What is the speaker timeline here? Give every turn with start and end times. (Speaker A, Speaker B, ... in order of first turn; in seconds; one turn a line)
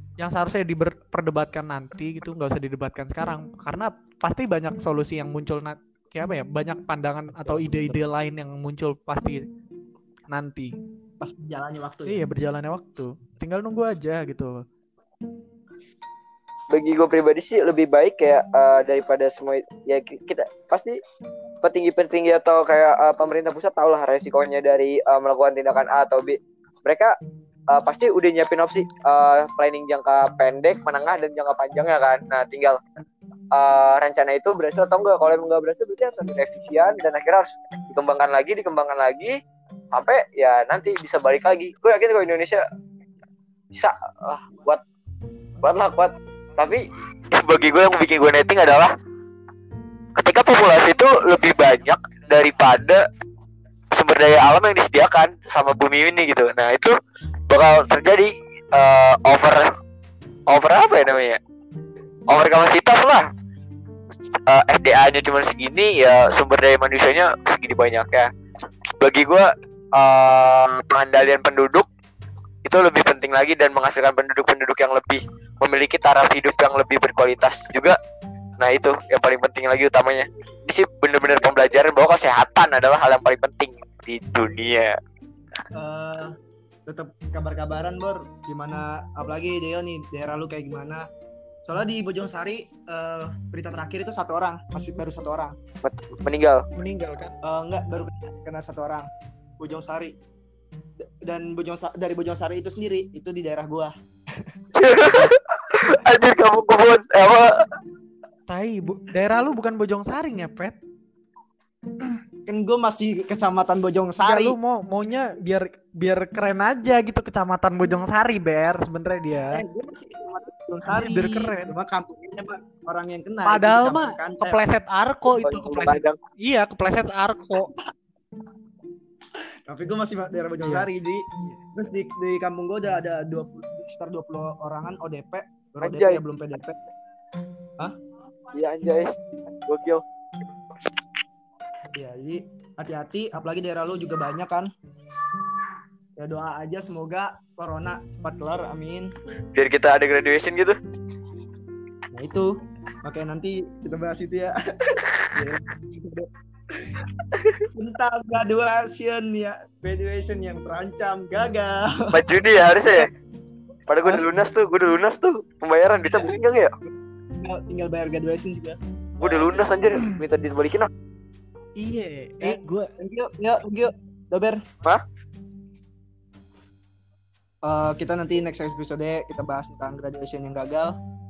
Speaker A: 0.2-9.4
Speaker B: 7.4-8.0
Speaker A: 10.3-10.8
Speaker B: 11.2-12.2
Speaker A: 12.1-14.6
Speaker C: 16.7-21.0
Speaker C: 21.6-27.1
Speaker C: 27.7-32.8
Speaker C: 33.5-39.3
Speaker C: 39.9-42.6
Speaker C: 43.7-44.8
Speaker C: 45.6-48.9
Speaker C: 50.2-53.0
Speaker C: 53.9-56.9
Speaker C: 57.5-59.7
Speaker C: 60.5-61.4
Speaker C: 62.3-63.3
Speaker C: 64.5-68.3
Speaker C: 69.0-71.9
Speaker C: 72.7-78.0
Speaker C: 78.6-85.0
Speaker B: 85.7-86.4
Speaker B: 86.9-91.0
Speaker B: 91.7-95.6
Speaker C: 95.8-96.6
Speaker A: 96.8-97.3
Speaker B: 97.4-99.1
Speaker B: 99.6-100.2
Speaker B: 101.0-104.5
Speaker C: 104.8-107.7
Speaker A: 108.5-110.8
Speaker B: 112.5-114.6
Speaker A: 114.2-119.6
Speaker B: 119.5-124.6
Speaker A: 120.9-121.7
Speaker A: 123.5-127.7
Speaker C: 125.3-126.2
Speaker B: 129.7-136.8
Speaker C: 135.8-136.2
Speaker C: 138.5-139.1
Speaker C: 139.7-140.0
Speaker B: 141.9-144.7
Speaker B: 146.2-149.1
Speaker C: 149.6-150.8
Speaker B: 152.1-152.5
Speaker B: 153.0-156.3
Speaker C: 157.3-157.6
Speaker B: 157.7-162.2
Speaker C: 162.1-163.1
Speaker C: 163.9-166.7
Speaker B: 167.4-169.7
Speaker C: 169.2-170.9
Speaker A: 171.8-172.9
Speaker B: 172.4-174.6
Speaker B: 177.7-180.9